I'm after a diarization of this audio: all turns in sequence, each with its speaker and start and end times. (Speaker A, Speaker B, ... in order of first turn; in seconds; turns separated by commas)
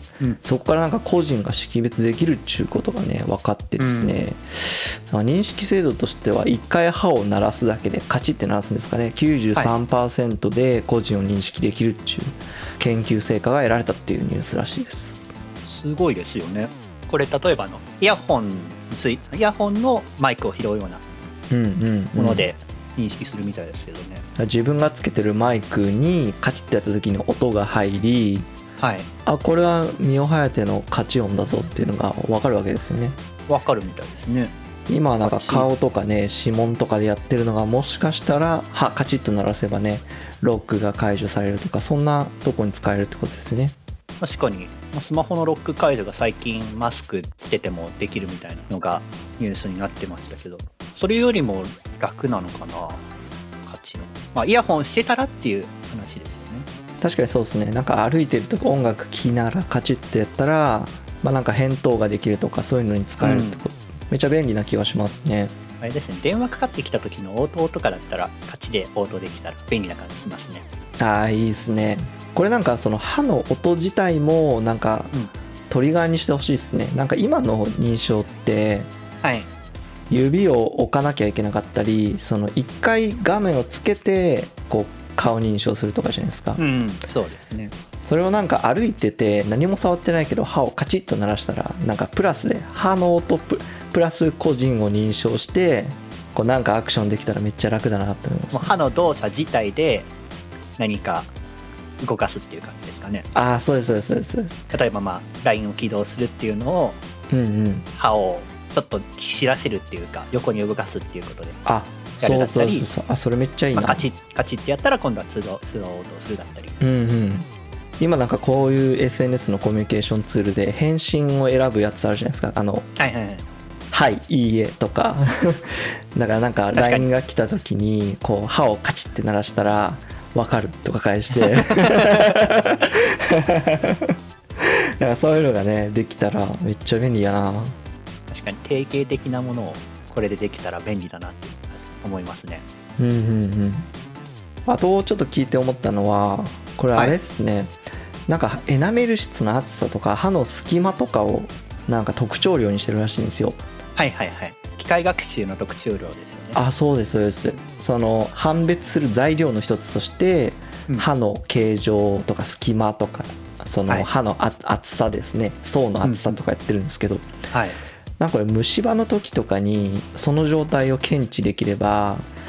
Speaker A: 0.4-15.2, Speaker B: 3.8-4.2, Speaker B: 15.6-21.0, Speaker A: 21.5-22.5, Speaker B: 22.1-24.2, Speaker A: 24.4-28.5, Speaker B: 28.8-29.1, Speaker A: 29.2-33.2, Speaker B: 33.5-34.5, Speaker A: 34.9-43.8, Speaker B: 35.2-35.7, Speaker B: 44.2-53.0, Speaker B: 53.6-56.7, Speaker A: 57.0-65.5, Speaker B: 63.2-63.6, Speaker B: 65.8-70.7, Speaker A: 71.0-75.1, Speaker A: 75.7-78.9, Speaker B: 79.2-79.5, Speaker A: 80.1-86.6, Speaker B: 86.6-87.7, Speaker A: 88.0-98.7, Speaker B: 98.5-100.1, Speaker B: 100.8-101.3, Speaker B: 102.0-103.2, Speaker A: 103.3-104.6, Speaker B: 104.7-107.0, Speaker A: 107.3-107.9, Speaker B: 107.9-111.6, Speaker A: 111.7-114.1, Speaker B: 112.2-112.9, Speaker B: 113.7-116.8, Speaker A: 116.8-117.5, Speaker A: 118.0-122.9, Speaker B: 123.0-123.4, Speaker A: 123.9-137.8, Speaker B: 126.8-127.1, Speaker B: 131.4-132.4, Speaker B: 138.3-142.6, Speaker A: 143.0-143.9, Speaker A: 144.7-147.7, Speaker A: 148.3-153.6, Speaker B: 153.9-156.6, Speaker A: 156.5-167.2, Speaker B: 166.0-166.4, Speaker B: 167.5-167.8, Speaker A: 168.2-172.3